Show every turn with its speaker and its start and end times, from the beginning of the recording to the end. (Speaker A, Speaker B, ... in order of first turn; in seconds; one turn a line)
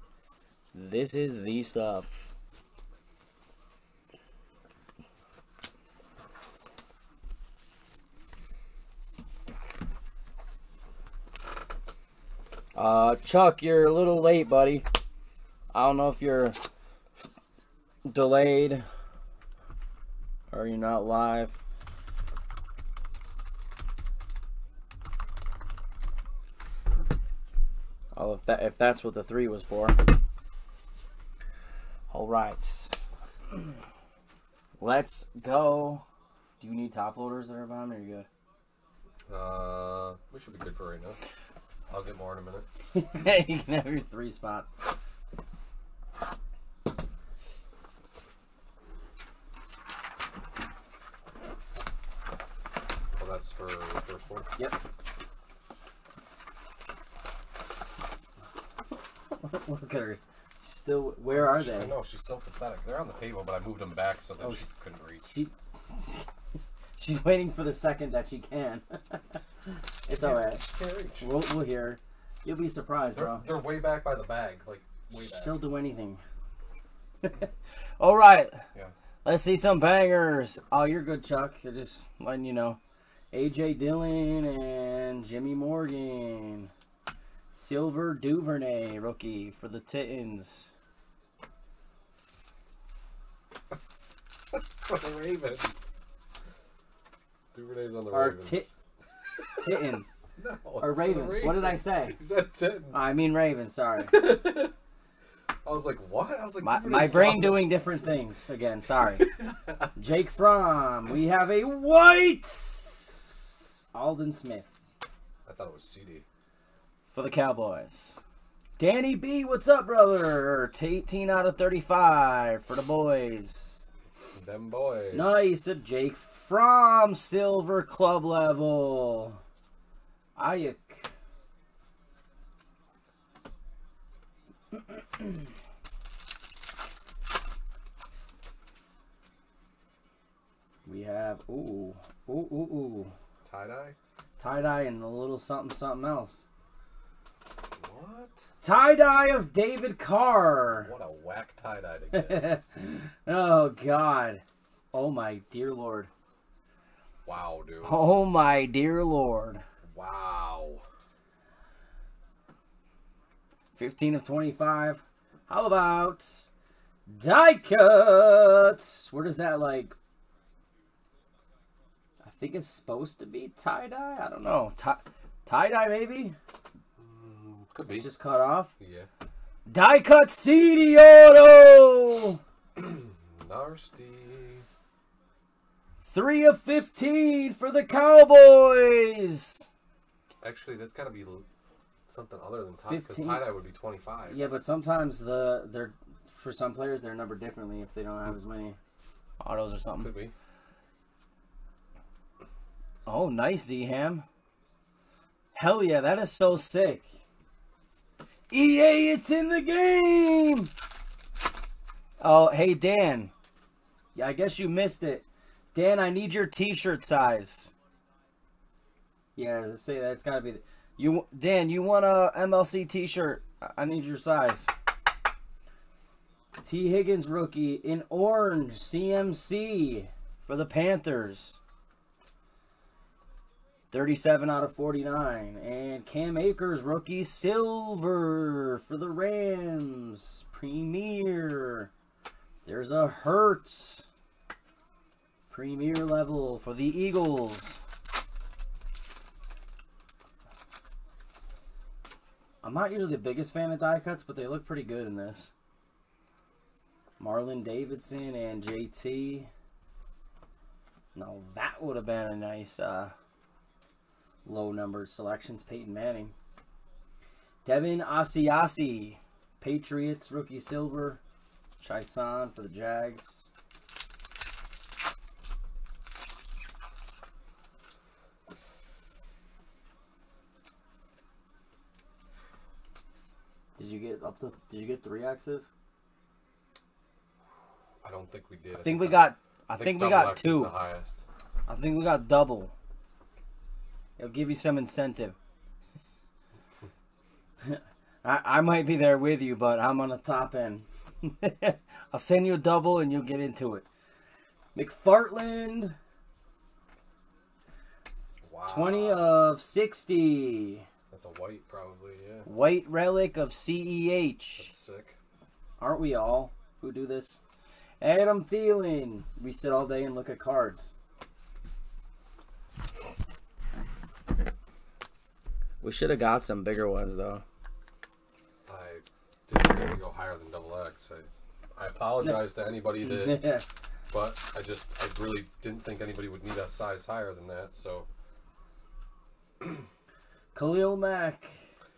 Speaker A: 0.7-2.3
Speaker A: 12.7-14.8
Speaker A: 15.7-16.6
Speaker A: 18.1-18.9
Speaker A: 20.5-21.6
Speaker A: 28.1-30.1
Speaker A: 32.1-33.0
Speaker A: 34.8-36.0
Speaker A: 36.6-38.3
Speaker B: 39.3-41.2
Speaker B: 41.9-42.7
Speaker A: 42.9-44.7
Speaker B: 53.1-54.5
Speaker A: 59.3-62.0
Speaker B: 61.3-65.3
Speaker A: 65.2-66.3
Speaker A: 67.0-69.4
Speaker A: 70.0-70.7
Speaker B: 70.2-71.3
Speaker A: 71.2-73.5
Speaker B: 73.1-75.6
Speaker A: 75.1-76.2
Speaker A: 77.2-78.6
Speaker A: 79.2-82.8
Speaker A: 83.3-86.7
Speaker A: 87.5-90.7
Speaker B: 94.5-95.9
Speaker B: 97.5-98.7
Speaker A: 98.1-98.7
Speaker B: 99.4-99.8
Speaker A: 99.6-100.2
Speaker B: 100.4-103.1
Speaker A: 100.8-102.2
Speaker A: 102.9-104.1
Speaker B: 104.0-104.7
Speaker B: 105.6-107.7
Speaker A: 106.6-109.3
Speaker B: 109.2-109.9
Speaker A: 110.0-114.7
Speaker B: 115.5-116.2
Speaker A: 117.1-118.2
Speaker A: 118.8-123.8
Speaker B: 124.3-125.5
Speaker A: 125.1-129.4
Speaker A: 130.3-131.1
Speaker A: 140.8-143.1
Speaker B: 143.4-143.9
Speaker A: 144.4-146.4
Speaker B: 147.8-148.4
Speaker A: 148.6-150.9
Speaker B: 150.8-152.4
Speaker A: 152.1-154.4
Speaker A: 154.9-156.1
Speaker B: 157.2-158.0
Speaker A: 157.8-159.6
Speaker B: 159.8-160.8
Speaker A: 163.8-166.5
Speaker A: 167.1-169.9
Speaker A: 172.2-176.3
Speaker B: 177.0-178.1
Speaker A: 177.9-178.7
Speaker B: 178.8-179.1
Speaker A: 179.7-182.4
Speaker B: 182.8-184.6
Speaker A: 186.0-189.7
Speaker B: 190.4-191.4
Speaker B: 192.1-194.4
Speaker A: 192.8-193.4
Speaker A: 194.3-198.8
Speaker A: 199.4-200.1
Speaker B: 200.0-200.3
Speaker A: 203.1-204.2
Speaker A: 205.5-207.1
Speaker A: 208.5-210.7
Speaker A: 212.2-213.3
Speaker A: 214.1-217.7
Speaker A: 219.3-224.7
Speaker A: 226.6-231.6
Speaker A: 233.9-241.9
Speaker A: 242.6-244.1
Speaker A: 245.5-247.8
Speaker A: 252.6-255.5
Speaker A: 257.2-259.5
Speaker A: 261.1-263.1
Speaker A: 264.4-266.3
Speaker A: 267.6-271.2
Speaker A: 271.8-273.5
Speaker A: 283.8-285.7
Speaker B: 288.0-291.2
Speaker A: 288.8-290.7
Speaker A: 291.7-292.7
Speaker A: 294.2-295.4
Speaker A: 297.6-303.9
Speaker A: 304.7-305.9
Speaker B: 308.4-309.4
Speaker A: 308.6-310.9
Speaker B: 311.1-312.5
Speaker A: 312.4-314.7
Speaker B: 314.6-315.1
Speaker A: 315.8-317.4
Speaker A: 318.0-320.9
Speaker A: 325.8-327.4
Speaker B: 328.6-333.4
Speaker A: 332.2-333.6
Speaker B: 334.1-338.1
Speaker A: 340.5-341.6